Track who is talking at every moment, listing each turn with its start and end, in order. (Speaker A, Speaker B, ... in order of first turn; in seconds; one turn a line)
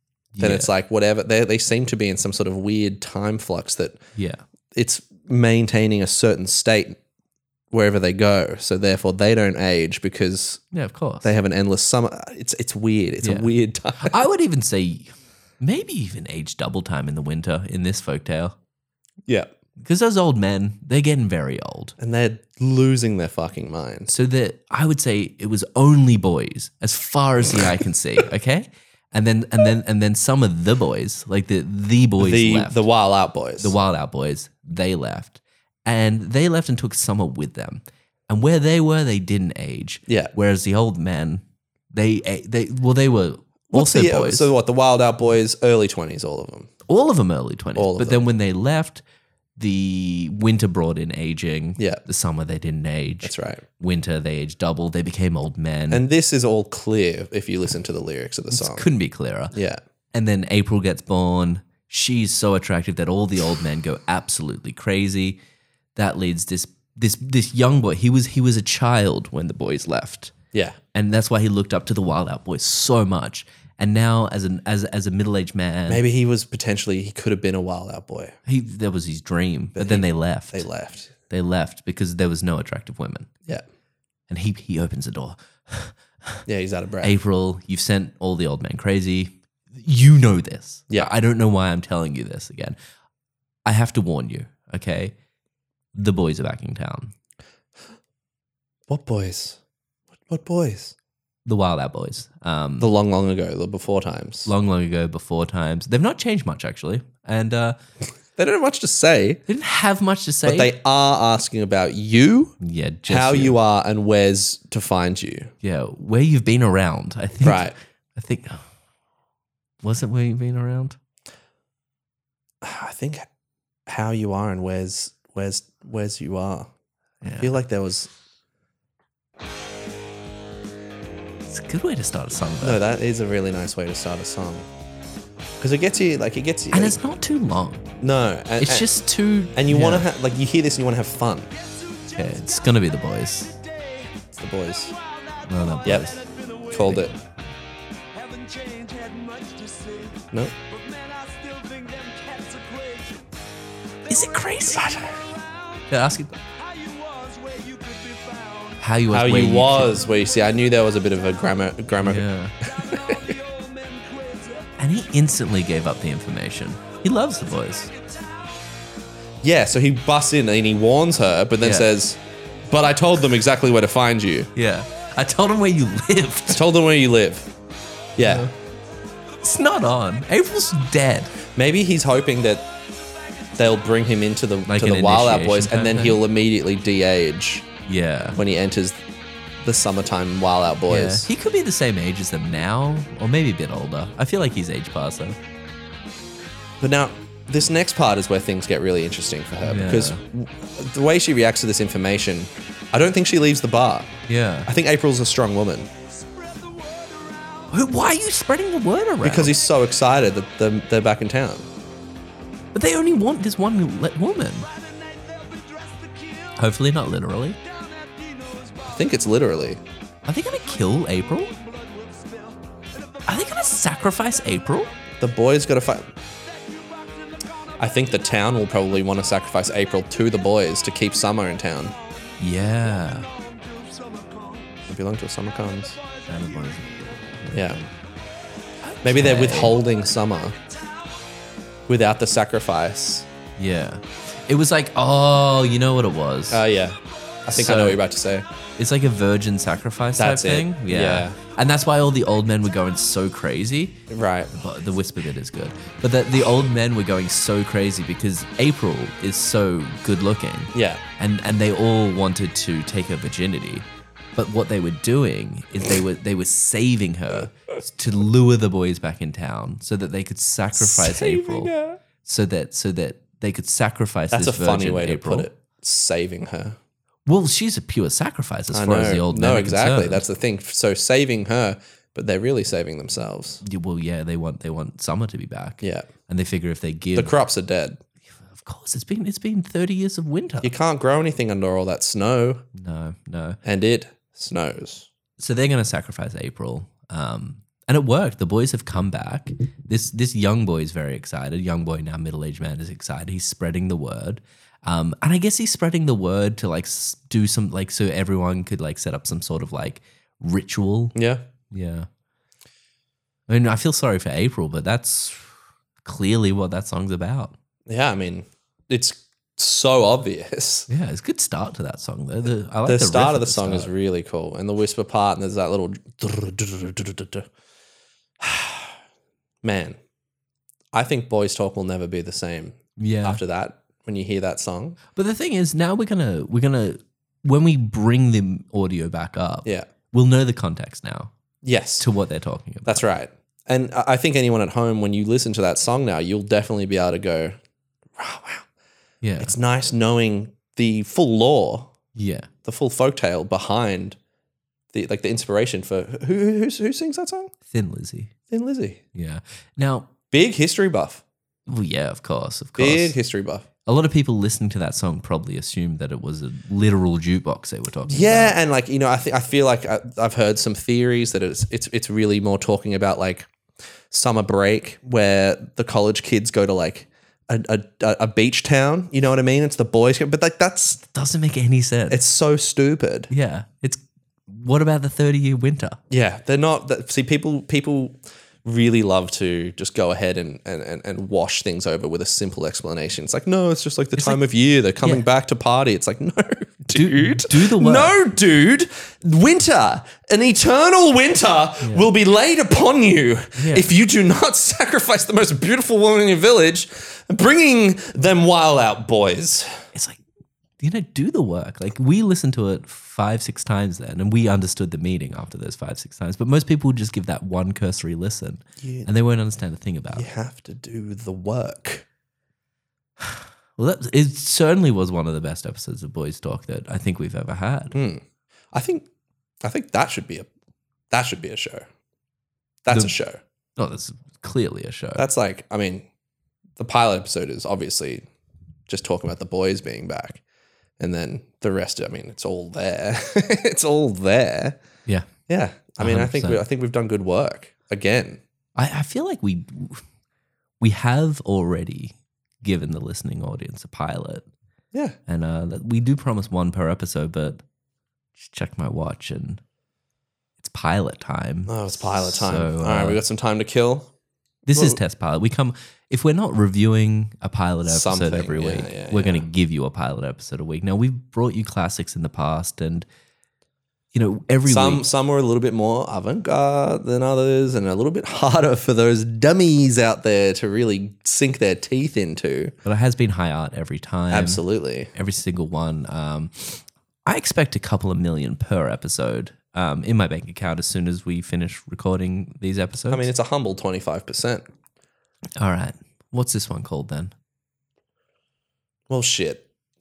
Speaker A: 0.3-0.7
Speaker B: 0.4-4.0
Speaker A: 4.2-4.4
Speaker B: 4.7-7.0
Speaker B: 7.7-10.6
Speaker A: 10.7-11.3
Speaker B: 11.2-14.2
Speaker A: 13.2-18.6
Speaker B: 19.3-19.5
Speaker A: 19.8-21.9
Speaker B: 22.0-24.1
Speaker A: 24.1-32.8
Speaker B: 32.2-33.7
Speaker A: 33.6-44.5
Speaker B: 40.1-40.3
Speaker B: 43.7-46.7
Speaker A: 46.9-49.0
Speaker B: 47.8-48.2
Speaker A: 49.6-56.0
Speaker B: 53.2-53.6
Speaker B: 55.9-58.9
Speaker A: 58.5-59.5
Speaker B: 59.5-59.8
Speaker A: 60.1-65.4
Speaker A: 66.0-70.3
Speaker B: 70.5-70.8
Speaker A: 70.9-76.0
Speaker B: 75.9-78.3
Speaker A: 78.5-80.7
Speaker B: 79.8-81.1
Speaker A: 81.3-83.3
Speaker A: 84.3-86.4
Speaker B: 86.5-87.1
Speaker A: 87.0-92.8
Speaker A: 93.6-95.1
Speaker A: 95.9-97.1
Speaker B: 98.9-99.6
Speaker B: 100.2-100.9
Speaker A: 101.5-102.9
Speaker B: 102.8-104.5
Speaker A: 104.5-107.8
Speaker B: 108.3-109.4
Speaker A: 109.5-110.7
Speaker B: 110.4-115.5
Speaker A: 112.6-113.6
Speaker A: 115.6-118.7
Speaker B: 117.4-117.7
Speaker A: 119.8-121.0
Speaker B: 122.6-123.3
Speaker B: 123.9-126.7
Speaker A: 127.2-127.5
Speaker B: 127.4-128.1
Speaker A: 131.5-132.8
Speaker B: 132.6-134.7
Speaker B: 135.6-137.0
Speaker A: 136.7-137.8
Speaker B: 138.0-138.9
Speaker A: 138.6-140.1
Speaker B: 139.5-141.5
Speaker C: 141.5-147.1
Speaker A: 142.1-143.5
Speaker B: 144.4-144.9
Speaker A: 145.5-146.2
Speaker B: 146.7-147.1
Speaker A: 146.8-147.2
Speaker C: 148.1-153.3
Speaker C: 154.1-155.9
Speaker A: 154.1-154.9
Speaker B: 154.7-155.1
Speaker A: 155.9-156.3
Speaker C: 156.5-158.8
Speaker A: 158.8-160.0
Speaker B: 159.1-163.3
Speaker A: 162.0-162.5
Speaker C: 162.6-164.8
Speaker A: 164.8-167.9
Speaker C: 167.2-168.8
Speaker B: 169.4-174.5
Speaker A: 171.6-171.9
Speaker A: 174.5-176.6
Speaker B: 176.5-177.5
Speaker B: 178.2-178.5
Speaker A: 178.2-178.5
Speaker A: 179.4-181.3
Speaker B: 181.5-182.7
Speaker C: 183.3-183.8
Speaker B: 183.6-187.7
Speaker A: 184.7-186.2
Speaker A: 187.8-188.4
Speaker B: 188.3-189.0
Speaker B: 189.6-191.3
Speaker A: 190.9-195.4
Speaker B: 196.8-204.1
Speaker A: 199.6-200.2
Speaker A: 204.3-204.7
Speaker B: 204.7-205.9
Speaker C: 206.1-207.9
Speaker A: 207.7-209.5
Speaker B: 209.2-211.7
Speaker A: 212.7-214.7
Speaker C: 214.6-216.6
Speaker A: 216.6-217.6
Speaker C: 217.6-219.2
Speaker B: 218.9-219.8
Speaker A: 220.2-221.5
Speaker C: 220.5-225.1
Speaker A: 223.3-224.9
Speaker B: 225.2-226.1
Speaker C: 226.3-227.7
Speaker B: 227.8-231.9
Speaker C: 231.8-234.9
Speaker A: 232.4-233.3
Speaker B: 234.9-236.0
Speaker C: 235.8-237.1
Speaker A: 236.3-237.9
Speaker B: 237.5-237.8
Speaker A: 238.8-239.8
Speaker B: 239.0-240.6
Speaker C: 240.7-241.1
Speaker B: 241.9-243.3
Speaker A: 243.6-246.6
Speaker B: 246.5-248.4
Speaker A: 247.5-248.0
Speaker A: 248.8-254.0
Speaker B: 250.2-251.4
Speaker B: 254.1-254.5
Speaker A: 254.5-275.5
Speaker B: 260.7-261.0
Speaker B: 270.7-272.0
Speaker B: 274.3-276.8
Speaker A: 277.2-280.2
Speaker B: 278.7-283.6
Speaker A: 283.6-287.3
Speaker B: 285.8-286.1
Speaker B: 287.1-288.0
Speaker A: 288.5-290.7
Speaker B: 290.6-292.6
Speaker A: 292.7-293.6
Speaker B: 293.6-295.1
Speaker A: 295.4-311.1
Speaker B: 311.1-311.4
Speaker A: 311.7-312.1
Speaker A: 313.5-317.5
Speaker B: 317.9-320.9
Speaker A: 320.9-323.9
Speaker B: 322.9-327.5
Speaker B: 328.4-328.9
Speaker B: 329.6-330.0
Speaker B: 330.9-335.0
Speaker A: 333.0-333.4
Speaker A: 335.1-341.3
Speaker B: 341.6-342.1
Speaker A: 342.0-343.1
Speaker B: 342.9-347.6
Speaker B: 348.2-348.7
Speaker A: 349.2-349.5
Speaker B: 349.4-351.9
Speaker A: 352.1-352.5
Speaker B: 352.6-354.2
Speaker B: 354.9-357.5
Speaker A: 357.7-358.3
Speaker B: 358.5-359.0
Speaker A: 359.1-360.1
Speaker B: 360.3-361.2
Speaker A: 361.7-363.1
Speaker B: 362.8-363.6
Speaker A: 363.9-368.6
Speaker B: 368.1-373.5
Speaker B: 374.1-381.0
Speaker A: 381.1-382.2
Speaker B: 382.1-383.3
Speaker A: 383.3-386.0
Speaker B: 386.1-409.7
Speaker A: 394.1-394.4
Speaker A: 396.9-398.2
Speaker A: 401.8-402.1
Speaker A: 403.6-403.9
Speaker A: 409.9-410.2
Speaker A: 410.8-420.3
Speaker B: 418.8-419.1
Speaker B: 420.1-422.0
Speaker A: 423.2-427.9
Speaker B: 427.9-429.1
Speaker B: 429.6-430.5
Speaker B: 431.1-431.9
Speaker B: 432.8-433.4
Speaker A: 433.8-435.2
Speaker B: 435.2-436.1
Speaker B: 436.8-438.2
Speaker B: 438.9-440.4
Speaker B: 441.0-444.8
Speaker B: 445.5-448.4
Speaker A: 446.0-446.6
Speaker A: 448.8-450.0
Speaker A: 450.8-454.5
Speaker A: 455.3-457.6
Speaker A: 458.4-459.6
Speaker A: 460.6-463.2
Speaker B: 461.7-464.1
Speaker A: 464.6-473.1
Speaker B: 467.9-469.5
Speaker A: 474.1-475.0
Speaker B: 474.6-482.7
Speaker A: 482.8-484.6
Speaker B: 484.3-485.1
Speaker A: 485.1-493.3
Speaker B: 493.1-494.6
Speaker A: 495.6-497.3
Speaker B: 499.1-499.6